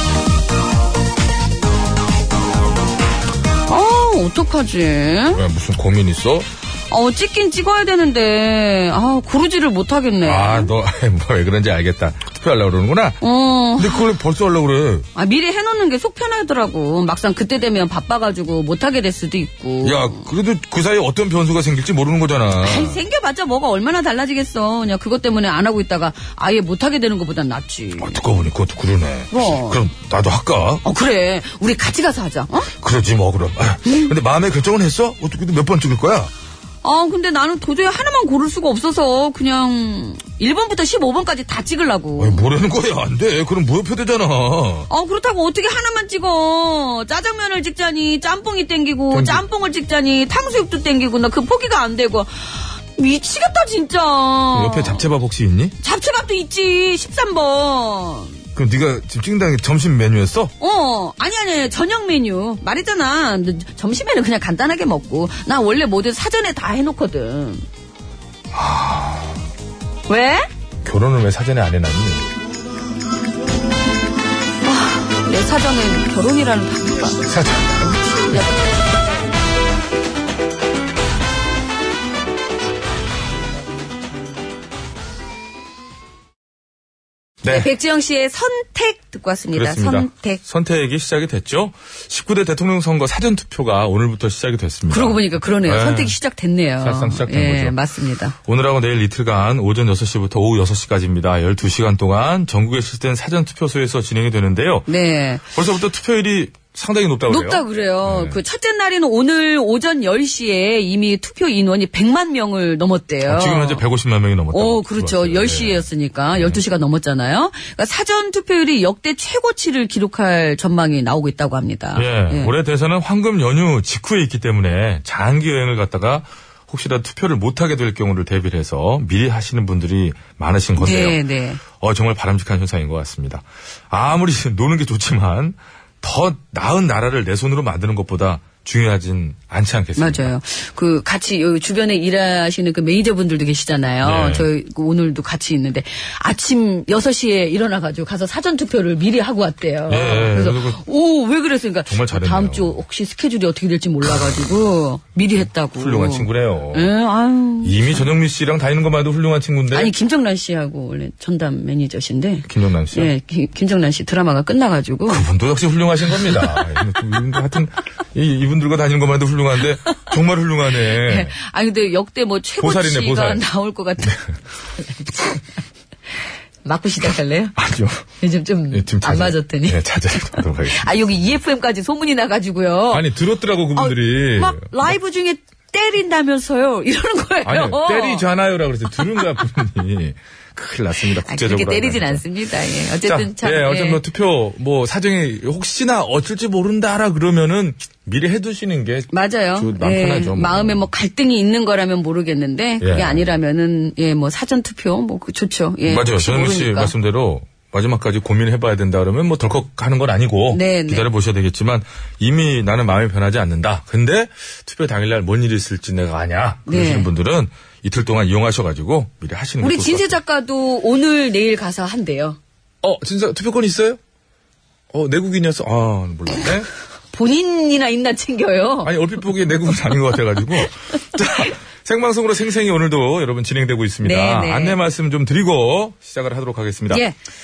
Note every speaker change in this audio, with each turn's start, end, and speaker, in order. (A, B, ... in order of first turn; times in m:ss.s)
0:03.7-0:05.4 A
0:05.3-0:06.5 B
0:06.9-0:10.7 A
0:10.2-0:13.2 B
0:13.2-0:14.1 A
0:13.8-0:15.1 B
0:15.1-0:20.2 A
0:19.8-0:23.0 B
0:22.6-0:28.2 A
0:28.0-0:30.8 B
0:29.3-0:29.8 A
0:30.8-0:32.7 A
0:32.8-0:36.3 B
0:33.8-0:34.1 A
0:36.8-0:42.4 A
0:42.2-0:44.9 B
0:44.9-0:55.0 A
0:49.1-0:49.4 B
0:54.5-0:55.8 B
0:55.8-0:58.4 A
0:58.5-1:00.5 B
1:00.6-1:07.6 A
1:08.5-1:09.4 B
1:10.1-1:10.5 A
1:10.8-1:12.3 B
1:14.6-1:17.3 A
1:17.2-1:18.4 B
1:18.0-1:19.0 A
1:27.4-1:27.7 B
1:27.4-1:30.4 A
1:29.5-1:36.1 B
1:34.9-1:38.3 A
1:36.8-1:37.8 B
1:38.4-1:44.9 B
1:44.9-1:45.4 A
1:45.5-1:48.4 B
1:47.3-1:53.8 A
1:53.2-1:56.6 B
1:54.5-2:02.5 A
2:01.9-2:11.2 B
2:10.8-2:11.6 A
2:11.7-2:20.3 B
2:20.0-2:38.0 A
2:24.0-2:24.5 B
2:29.9-2:30.8 B
2:31.9-2:32.8 B
2:35.7-2:36.9 B
2:37.6-2:39.9 B
2:39.7-2:45.2 A
2:42.4-2:43.1 B
2:45.1-2:51.3 B
2:50.9-2:54.2 A
2:52.6-2:53.4 B
2:54.8-2:55.4 A
2:56.6-2:57.5 A
2:57.6-2:58.0 B
2:58.2-3:03.1 A
2:58.7-3:01.4 B
3:02.9-3:04.9 B
3:03.8-3:08.2 A
3:07.4-3:12.2 B
3:11.2-3:14.0 A
3:13.0-3:20.8 B
3:19.1-3:26.9 A
3:22.8-3:23.3 B
3:25.8-3:40.2 B
3:30.5-3:31.1 A
3:36.7-3:37.1 A
3:39.6-3:42.4 A
3:42.8-3:44.0 B
3:44.9-3:46.7 B
3:47.1-3:48.9 A
3:48.8-3:57.0 B
3:54.0-3:54.8 A
3:56.9-3:57.1 A